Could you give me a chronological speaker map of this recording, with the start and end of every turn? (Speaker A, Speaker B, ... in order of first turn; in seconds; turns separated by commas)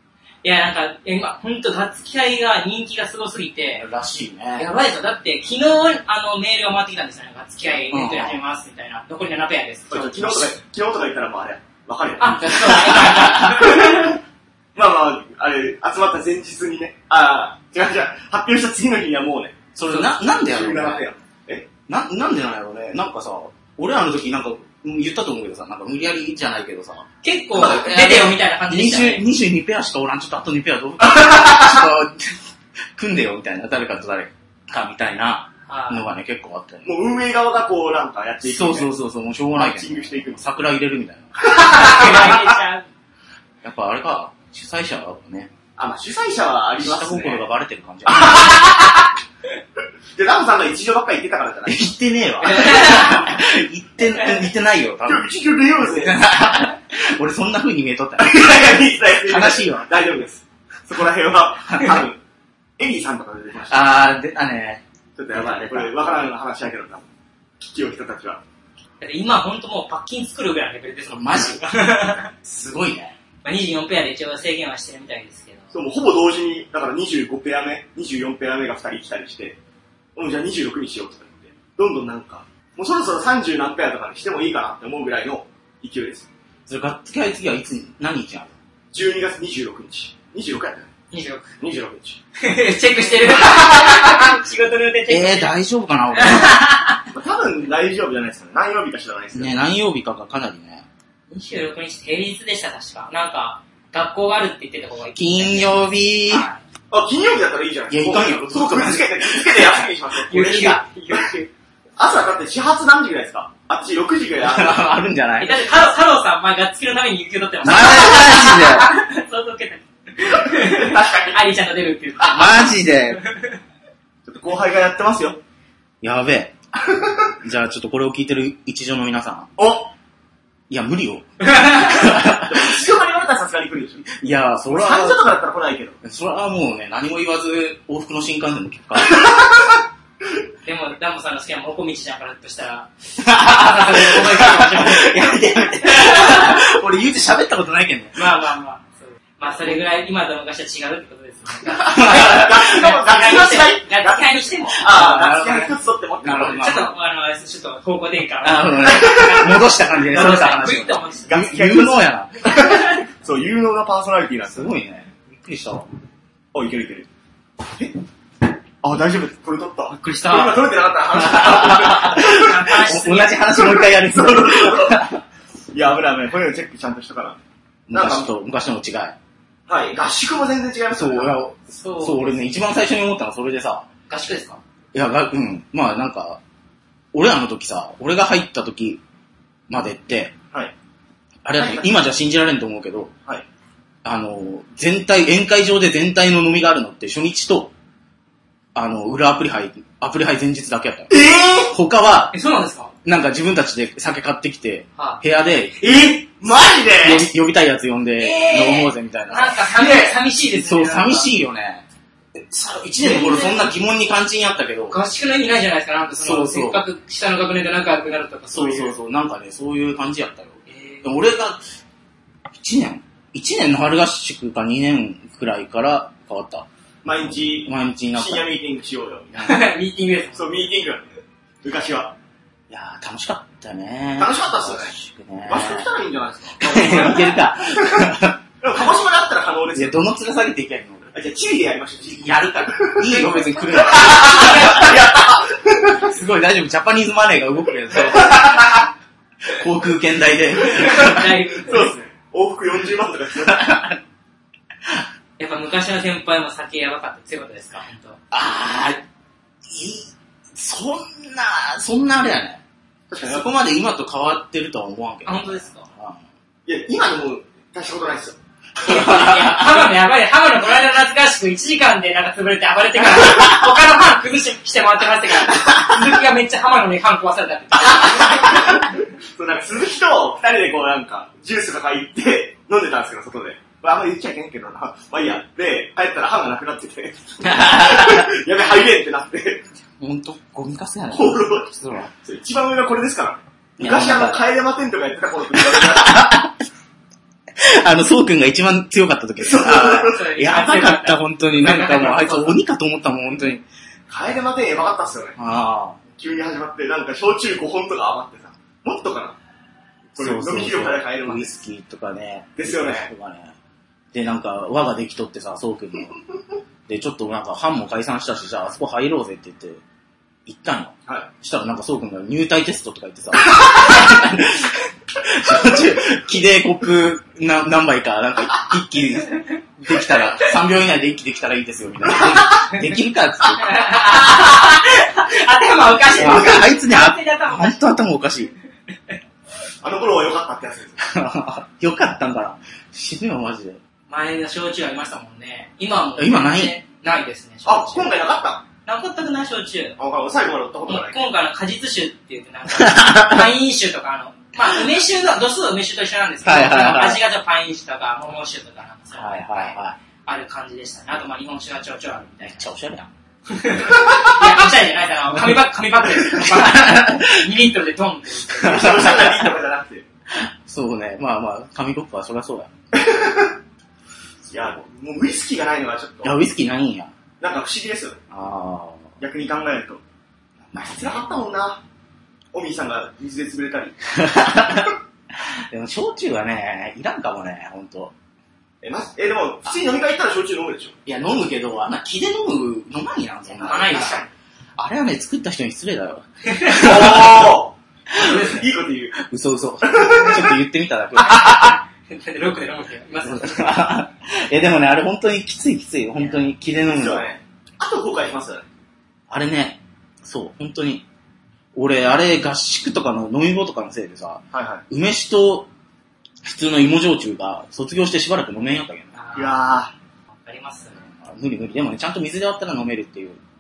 Speaker A: 0.4-3.9, Speaker B: 3.8-4.7, Speaker A: 4.6-10.5, Speaker B: 7.9-8.4, Speaker C: 9.9-14.2, Speaker A: 12.2-14.2, Speaker B: 12.5-13.6, Speaker C: 14.8-21.7, Speaker B: 19.8-21.0, Speaker B: 21.9-36.9, Speaker A: 27.2-29.2, Speaker C: 27.6-28.0, Speaker C: 31.3-31.8, Speaker A: 35.7-36.1, Speaker C: 36.9-38.9, Speaker B: 38.4-42.4, Speaker C: 39.5-40.4, Speaker A: 41.5-42.9, Speaker C: 41.5-42.4, Speaker B: 43.6-45.5, Speaker C: 45.8-47.4, Speaker B: 46.8-48.6, Speaker C: 48.1-49.1, Speaker C: 50.2-51.8, Speaker B: 51.6-59.9, Speaker A: 52.4-53.4, Speaker C: 55.0-56.2, Speaker C: 58.2-62.2, Speaker B: 61.7-62.0, Speaker C: 62.8-63.9, Speaker B: 63.7-65.9, Speaker C: 65.2-67.1, Speaker C: 67.6-68.4, Speaker A: 69.0-72.3, Speaker B: 71.1-71.6, Speaker B: 72.4-73.2, Speaker A: 73.4-75.7, Speaker C: 75.7-79.6, Speaker C: 80.2-86.3, Speaker B: 86.7-88.5, Speaker C: 88.9-90.9, Speaker A: 91.1-91.6, Speaker C: 91.6-92.2, Speaker A: 92.4-95.5, Speaker C: 93.3-93.9, Speaker B: 95.1-96.7, Speaker A: 96.1-97.0, Speaker C: 97.1-99.5, Speaker B: 99.3-100.9, Speaker A: 101.3-106.6, Speaker B: 105.2-106.5, Speaker C: 106.9-111.1, Speaker B: 107.9-109.9, Speaker A: 110.3-111.5, Speaker C: 112.0-115.0, Speaker B: 114.4-115.6, Speaker A: 115.4-123.6, Speaker B: 117.6-118.9, Speaker C: 120.5-121.4, Speaker B: 122.2-123.2, Speaker C: 124.3-125.4, Speaker B: 126.0-126.6, Speaker B: 127.4-129.5, Speaker C: 129.6-129.9, Speaker B: 130.7-132.7, Speaker A: 131.4-132.2, Speaker C: 132.3-134.1, Speaker B: 134.1-135.3, Speaker C: 134.7-136.0, Speaker B: 136.0-139.3, Speaker C: 139.2-139.4, Speaker A: 140.7-146.6, Speaker B: 143.2-148.3, Speaker A: 148.2-155.1, Speaker B: 151.7-152.8, Speaker C: 151.9-156.8, Speaker B: 154.7-156.9, Speaker A: 156.5-161.3, Speaker B: 158.4-162.3, Speaker C: 161.3-164.7, Speaker A: 162.5-163.0, Speaker B: 164.5-165.9, Speaker C: 166.5-167.1, Speaker C: 168.8-172.7, Speaker A: 169.9-170.7, Speaker B: 171.1-175.2, Speaker A: 172.2-173.4, Speaker C: 173.5-175.0, Speaker C: 175.7-177.4, Speaker B: 177.9-179.2, Speaker C: 177.9-178.3, Speaker C: 179.7-181.4, Speaker B: 180.9-183.9, Speaker A: 181.7-182.6, Speaker A: 184.1-184.6, Speaker B: 184.9-186.4, Speaker B: 187.1-189.0, Speaker B: 189.7-190.3, Speaker B: 191.4-193.1, Speaker C: 191.6-191.9, Speaker B: 194.0-197.7, Speaker B: 198.8-202.3, Speaker C: 201.1-201.7, Speaker A: 202.3-202.9, Speaker B: 203.1-205.8, Speaker A: 205.0-205.2, Speaker C: 205.8-207.3, Speaker B: 207.0-209.7, Speaker A: 208.2-211.3, Speaker C: 209.7-210.2, Speaker B: 210.5-215.0, Speaker C: 213.0-213.5, Speaker A: 214.9-218.9, Speaker B: 216.2-216.8, Speaker B: 218.5-221.6, Speaker A: 220.7-221.1, Speaker B: 222.5-226.7, Speaker C: 227.0-229.4, Speaker B: 227.6-228.5, Speaker B: 229.3-229.7, Speaker A: 229.4-230.6, Speaker C: 230.3-232.2, Speaker B: 232.7-235.9, Speaker C: 234.2-234.9, Speaker C: 235.5-238.0, Speaker B: 236.6-238.4, Speaker C: 238.6-240.0, Speaker B: 239.7-241.1, Speaker C: 241.1-246.2, Speaker B: 242.1-245.0, Speaker A: 243.8-244.9, Speaker B: 246.0-248.9, Speaker C: 248.1-248.7, Speaker B: 249.5-251.4, Speaker A: 250.6-251.9, Speaker C: 250.8-253.7, Speaker B: 253.4-254.0, Speaker A: 255.4-258.2, Speaker B: 258.3-259.0, Speaker B: 259.7-262.6, Speaker C: 263.1-263.5, Speaker B: 263.2-266.2, Speaker A: 265.2-265.9, Speaker C: 266.7-268.4, Speaker A: 268.8-278.8, Speaker B: 268.8-269.9, Speaker C: 278.0-289.6, Speaker B: 287.5-288.3, Speaker B: 290.0-292.1, Speaker C: 291.1-296.2, Speaker B: 293.8-294.4, Speaker B: 295.6-296.6, Speaker B: 297.6-303.6, Speaker C: 299.4-300.3, Speaker A: 300.0-302.6, Speaker C: 304.1-305.4, Speaker B: 305.4-306.0, Speaker C: 306.2-309.4, Speaker C: 310.2-311.6, Speaker B: 310.2-313.5, Speaker C: 312.6-313.1, Speaker B: 314.1-316.2, Speaker B: 316.9-319.8, Speaker B: 320.5-334.2, Speaker A: 333.5-337.9, Speaker B: 336.1-338.5, Speaker C: 339.8-341.0, Speaker B: 341.0-343.8, Speaker A: 344.1-348.1, Speaker B: 346.2-346.8, Speaker C: 347.6-348.6, Speaker A: 348.9-350.0, Speaker C: 350.0-351.2, Speaker A: 350.9-362.6, Speaker B: 352.7-353.5, Speaker B: 356.4-357.2, Speaker B: 359.1-360.0, Speaker B: 362.4-363.1, Speaker A: 363.5-368.8, Speaker B: 366.2-367.5, Speaker B: 368.5-369.5, Speaker C: 368.6-370.0, Speaker B: 370.3-372.7, Speaker C: 372.9-373.6, Speaker C: 374.5-376.4, Speaker B: 376.2-377.1, Speaker C: 377.4-378.2, Speaker B: 378.3-379.1, Speaker C: 379.2-380.0, Speaker B: 380.7-381.4, Speaker C: 380.9-381.8, Speaker C: 382.5-384.0, Speaker B: 384.1-388.1, Speaker C: 388.8-391.0, Speaker B: 391.1-394.2, Speaker A: 393.5-394.3, Speaker C: 393.6-394.3, Speaker B: 394.8-397.6, Speaker A: 396.4-396.9, Speaker C: 396.7-399.2, Speaker B: 398.1-398.6, Speaker B: 399.2-401.8, Speaker C: 399.8-400.5, Speaker A: 401.2-403.7, Speaker B: 403.2-407.3, Speaker C: 406.9-408.7, Speaker B: 409.3-411.1, Speaker B: 411.8-415.7, Speaker C: 414.5-414.8, Speaker B: 416.4-419.1, Speaker A: 419.1-419.7, Speaker C: 419.3-419.9, Speaker A: 420.3-421.0, Speaker B: 421.0-423.4